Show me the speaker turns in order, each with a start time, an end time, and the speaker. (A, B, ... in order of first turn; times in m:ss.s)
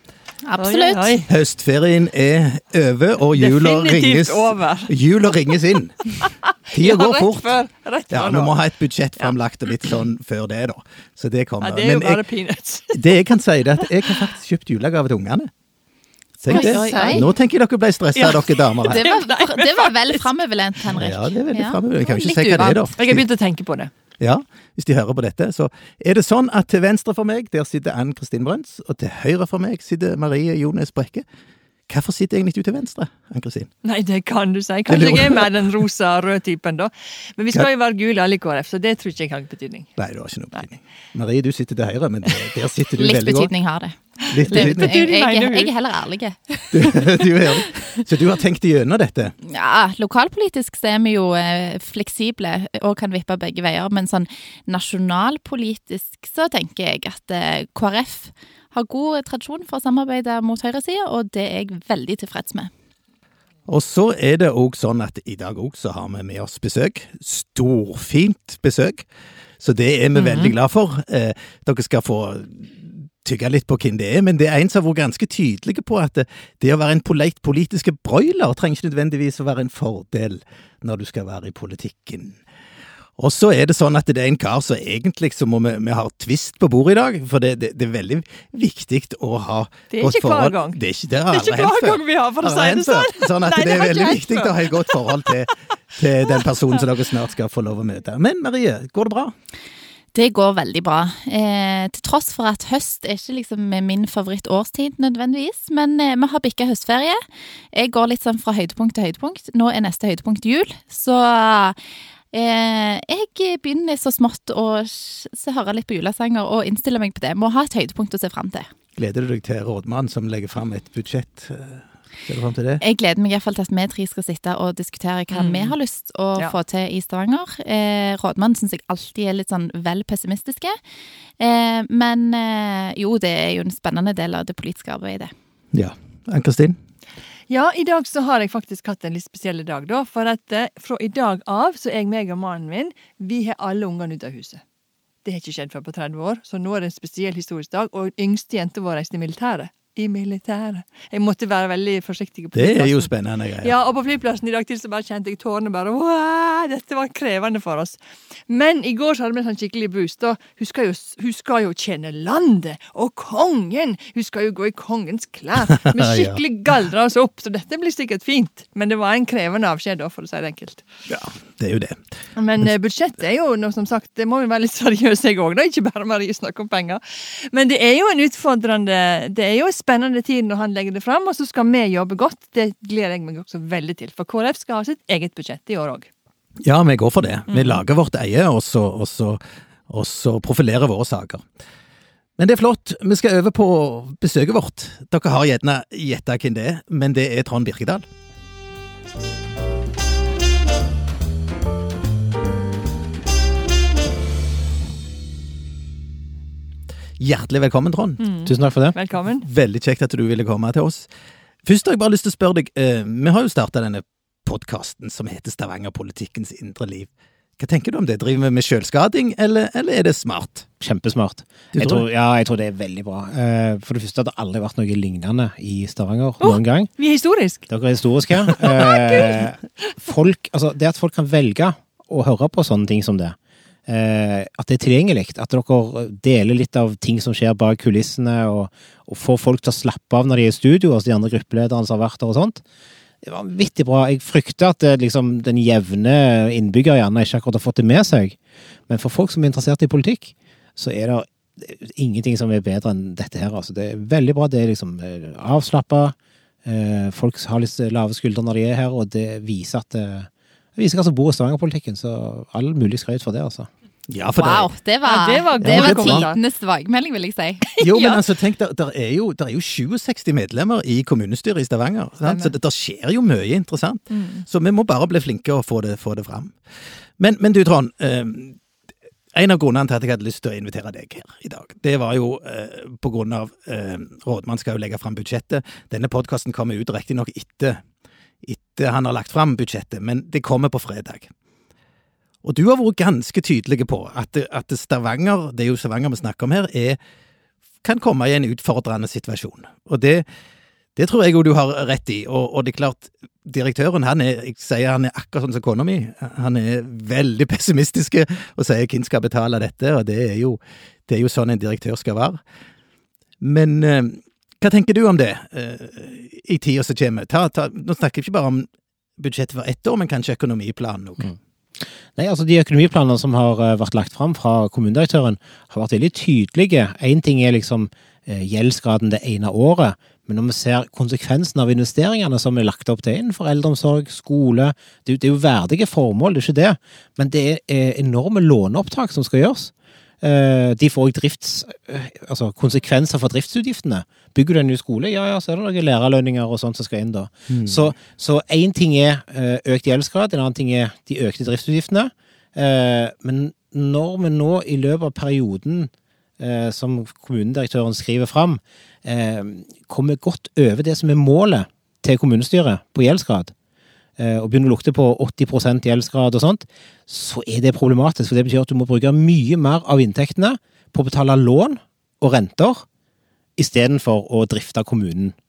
0:00.4-0:01.2 A
0:00.6-0:01.3 B
0:01.3-0:06.1 C
0:03.3-0:04.9 B
0:06.2-0:08.6 B
0:06.7-0:07.5 C
0:08.1-0:12.2 C
0:11.6-0:13.2 B
0:12.9-0:15.5 C
0:13.8-0:14.3 B
0:16.4-0:19.1 C
0:16.5-0:17.3 A
0:16.5-0:17.3 B
0:18.1-0:20.3 B
0:18.9-0:22.9 A
0:20.9-0:23.2 C
0:23.0-0:23.9 B
0:24.2-0:31.2 C
0:31.9-0:33.7 C
0:33.8-0:40.0 B
0:34.9-0:35.5 C
0:40.0-0:43.5 C
0:43.0-0:47.1 A
0:44.3-0:45.0 C
0:44.3-0:45.7 B
0:46.7-0:49.3 C
0:49.4-1:02.7 A
1:03.6-1:09.1 C
1:09.6-1:22.4 C
1:10.1-1:10.5 B
1:23.2-1:39.3 C
1:29.9-1:35.5 B
1:36.3-1:36.8 B
1:40.1-1:47.2 A
1:47.7-1:51.8 A
1:52.3-1:58.7 A
1:59.0-2:02.8 C
2:02.8-2:10.8 A
2:05.3-2:05.7 B
2:11.4-2:15.3 A
2:15.7-2:16.8 C
2:17.5-2:24.6 B
2:25.2-2:50.8 B
2:32.5-2:33.7 C
2:45.8-2:46.4 C
2:51.1-2:52.0 C
2:52.4-3:06.1 B
3:06.6-3:11.4 C
3:07.5-3:07.8 B
3:12.4-3:18.0 C
3:27.2-3:28.2 C
3:28.2-3:29.5 B
3:28.4-3:29.0 D
3:29.4-3:31.1 C
3:31.6-3:40.7 C
3:40.8-3:46.9 D
3:41.7-3:42.0 C
3:46.4-3:47.6 B
3:47.7-3:53.4 D
3:48.6-3:49.5 B
3:53.9-4:02.6 D
4:03.2-4:08.4 D
4:08.9-4:23.7 D
4:24.1-4:24.7 C
4:24.4-4:27.7 A
4:25.0-4:26.4 B
4:25.6-4:26.3 C
4:27.8-4:28.2 B
4:27.8-4:36.6 C
4:32.2-4:32.5 B
4:34.1-4:34.4 B
4:37.2-4:38.6 C
4:39.3-4:47.8 C
4:48.4-4:51.3 C
4:52.4-4:57.0 C
4:57.8-5:00.2 C
5:01.0-5:12.4 C
5:13.4-5:21.3 C
5:21.8-6:03.5 D
5:47.5-5:47.9 C
6:04.2-6:12.8 D
6:13.6-6:15.4 D